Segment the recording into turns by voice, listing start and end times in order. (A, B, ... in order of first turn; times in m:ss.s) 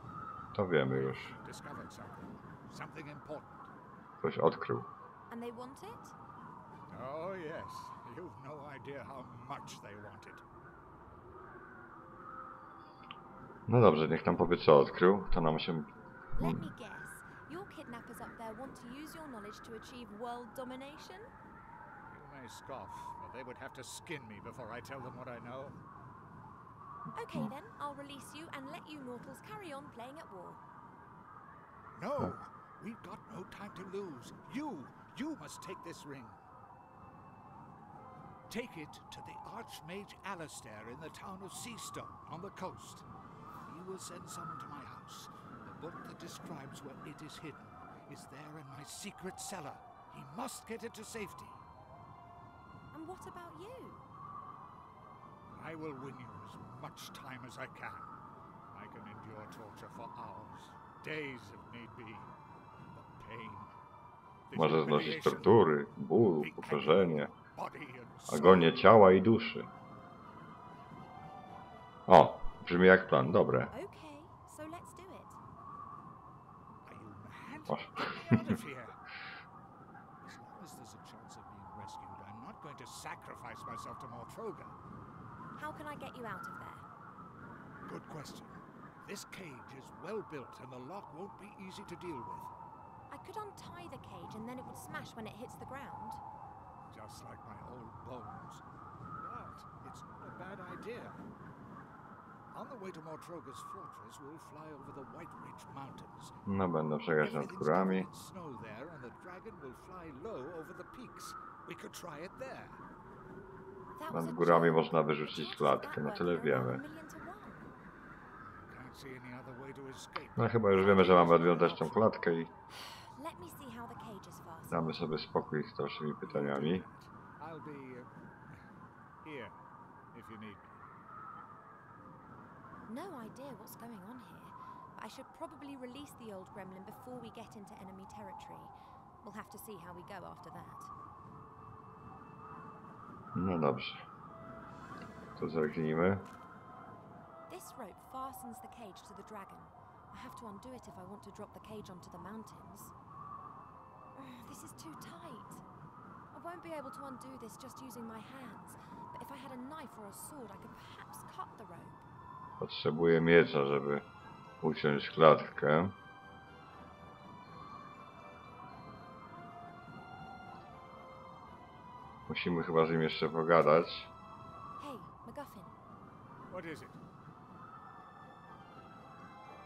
0:00.5-0:01.4 A
0:00.8-0:03.7 B
0:04.2-0:04.9 A
0:05.3-0:06.2 C
0:06.9-0:10.4 B
0:13.7-0:16.6 A
0:16.4-0:21.3 C
0:22.1-0:25.8 B
0:27.2-0:30.6 C
0:32.0-0:36.4 B
0:38.5-0:43.1 B
0:43.7-0:51.6 B
0:52.9-0:54.1 C
0:55.5-0:58.2 B
0:58.7-1:02.3 B
1:02.9-1:03.7 B
1:04.5-1:05.6 B
1:04.5-1:07.3 A
1:06.4-1:08.7 B
1:08.3-1:09.7 A
1:12.1-1:13.7 A
1:13.7-1:15.4 C
1:16.8-1:19.0 B
1:17.7-1:18.5 A
1:20.2-1:24.8 B
1:25.6-1:26.9 C
1:27.9-1:32.5 B
1:33.1-1:36.2 C
1:36.9-1:38.6 B
1:39.2-1:41.2 B
1:42.5-1:46.4 B
1:46.5-1:48.1 A
1:47.2-1:52.8 B
1:54.0-1:57.7 C
1:54.1-1:56.8 A
1:58.4-2:02.1 B
2:00.4-2:02.5 A
2:02.7-2:05.0 C
2:04.7-2:06.8 A
2:06.2-2:08.6 B
2:09.2-2:09.6 B
2:10.1-2:10.8 B
2:12.9-2:20.9 C
2:23.4-2:24.0 A
2:25.4-2:26.3 A
2:27.5-2:32.9 C
2:34.2-2:35.6 C
2:36.3-2:42.0 C
2:42.6-2:44.1 A
2:44.6-2:46.0 A
2:52.3-2:54.1 A
2:54.8-2:55.8 C
2:56.5-2:57.0 B